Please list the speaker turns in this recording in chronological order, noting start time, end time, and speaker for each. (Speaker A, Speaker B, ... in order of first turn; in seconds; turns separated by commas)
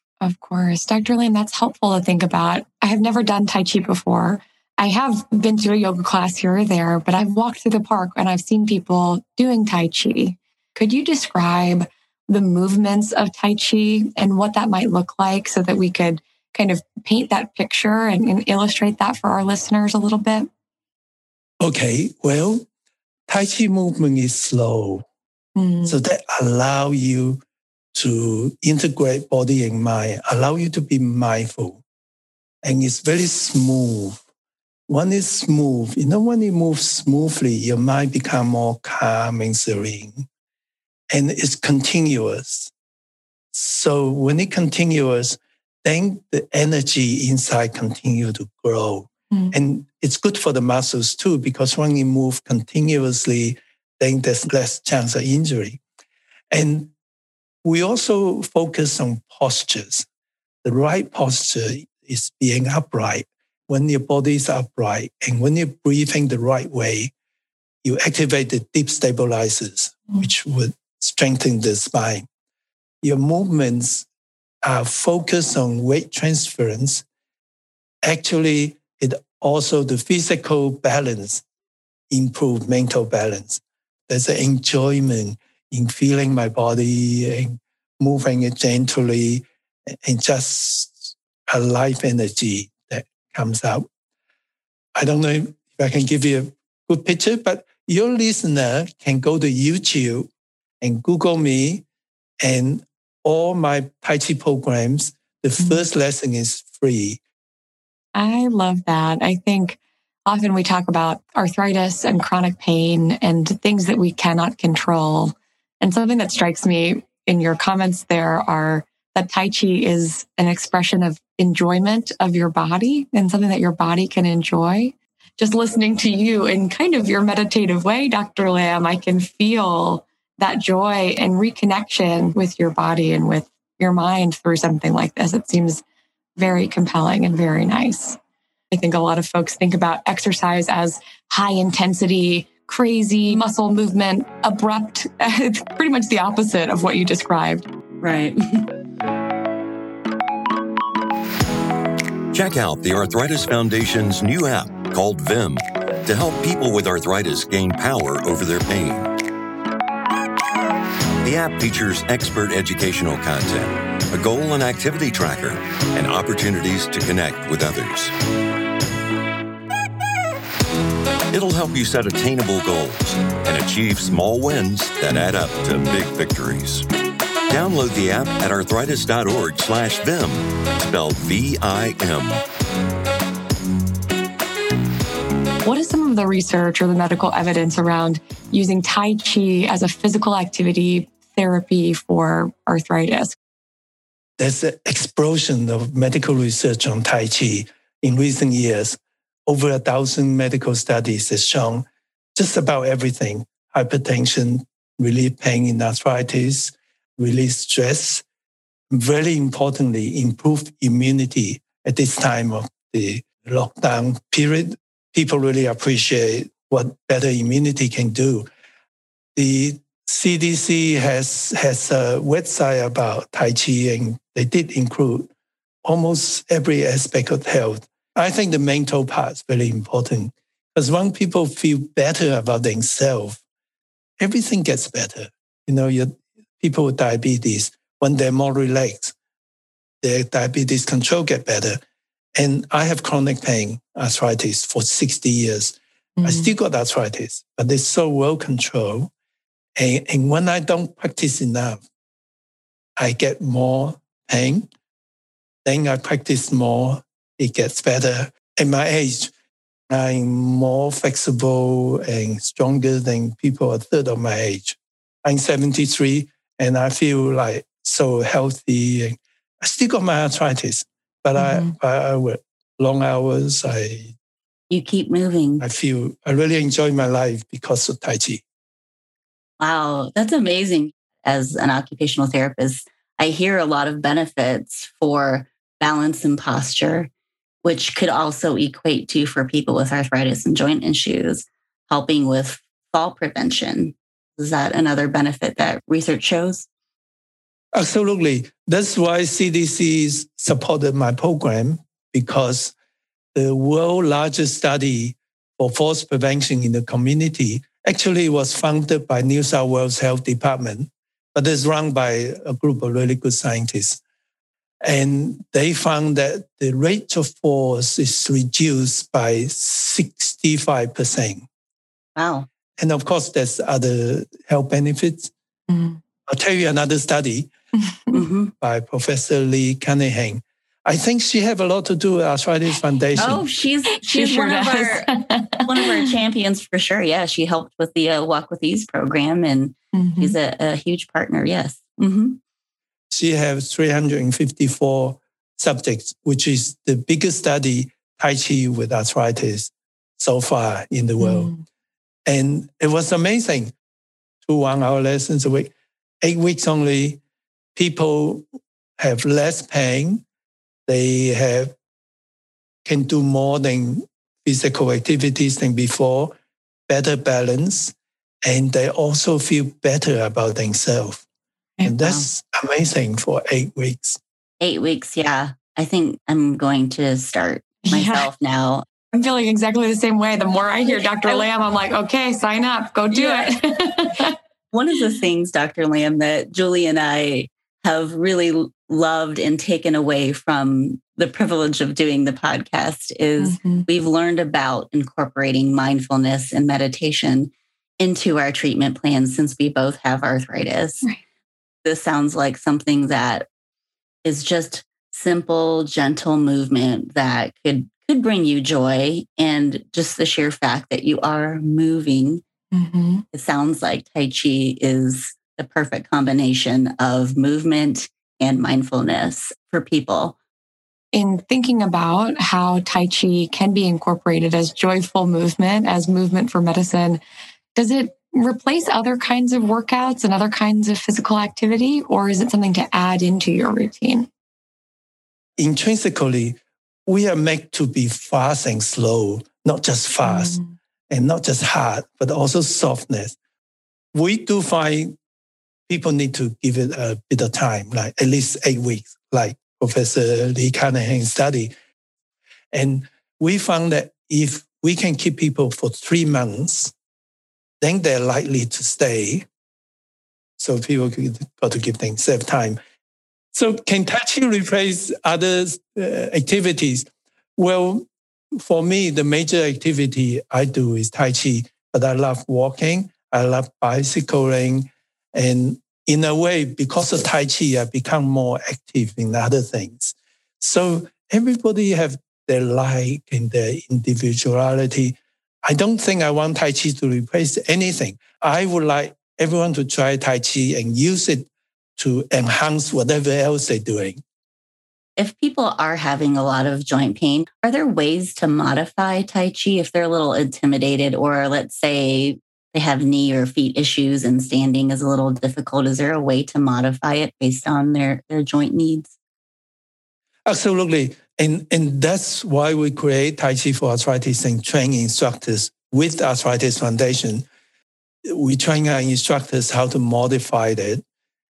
Speaker A: 0.2-20.5, Speaker B: 21.6-22.6, Speaker B: 23.3-25.1, Speaker A: 25.6-26.0, Speaker B: 25.8-27.4, Speaker B: 27.9-31.8, Speaker B: 32.6-34.2, Speaker B: 34.9-40.3, Speaker B: 41.1-42.7, Speaker B: 43.5-55.8, Speaker B: 56.5-56.9, Speaker B: 57.6-60.1, Speaker B: 60.6-67.1, Speaker B: 67.8-72.3, Speaker B: 73.0-74.1, Speaker B: 74.6-77.0, Speaker B: 78.0-81.4, Speaker B: 82.1-93.9, Speaker B: 95.0-100.3, Speaker B: 100.8-101.8, Speaker B: 102.4-107.2, Speaker A: 105.6-105.8, Speaker A: 108.1-135.8, Speaker A: 136.4-138.2, Speaker A: 138.7-147.7, Speaker C: 148.0-148.7, Speaker D: 152.3-159.1, Speaker D: 161.2-168.1, Speaker D: 171.3-176.9, Speaker D: 177.5-182.4, Speaker A: 185.6-193.4, Speaker B: 194.4-208.2, Speaker B: 208.9-218.5, Speaker B: 219.4-225.3, Speaker B: 225.8-233.4, Speaker B: 234.2-239.1, Speaker B: 240.0-241.8, Speaker B: 242.4-249.1, Speaker A: 246.2-246.5, Speaker B: 249.8-251.8, Speaker B: 253.0-254.7, Speaker B: 255.6-259.3, Speaker B: 259.9-274.1, Speaker A: 271.4-271.7, Speaker C: 274.7-275.6, Speaker B: 275.6-278.4, Speaker C: 279.6-287.1, Speaker C: 287.6-296.7, Speaker B: 297.7-302.7, Speaker B: 303.4-314.0, Speaker B: 314.8-321.5, Speaker C: 322.1-322.5, Speaker B: 322.8-325.3, Speaker A: 325.7-326.0, Speaker B: 326.3-327.5, Speaker C: 328.1-328.5, Speaker B: 328.6-333.4, Speaker C: 333.1-342.4, Speaker A: 334.1-335.8, Speaker A: 339.9-340.4, Speaker B: 343.1-351.5, Speaker A: 351.2-351.6, Speaker B: 352.3-353.7, Speaker B: 354.4-357.2, Speaker B: 357.8-358.4, Speaker B: 359.0-360.2, Speaker B: 360.9-361.8, Speaker B: 362.9-366.3, Speaker B: 366.9-367.9, Speaker B: 368.4-371.2, Speaker B: 371.8-374.2, Speaker C: 374.6-378.9, Speaker A: 377.9-378.3, Speaker A: 379.1-384.4, Speaker C: 380.9-381.4, Speaker C: 383.1-383.6, Speaker C: 384.7-401.1, Speaker A: 393.4-393.9, Speaker C: 401.9-403.5, Speaker C: 404.2-412.4, Speaker A: 412.7-413.2, Speaker C: 413.3-420.4, Speaker A: 421.1-427.2, Speaker A: 427.8-434.3, Speaker B: 435.6-440.6, Speaker A: 440.2-440.8, Speaker B: 441.1-443.4, Speaker B: 444.1-445.1, Speaker B: 445.9-451.7, Speaker B: 452.7-456.9, Speaker B: 457.8-459.4, Speaker B: 460.6-462.8, Speaker B: 463.5-494.2, Speaker C: 495.2-509.1, Speaker B: 510.5-517.5, Speaker B: 518.2-521.0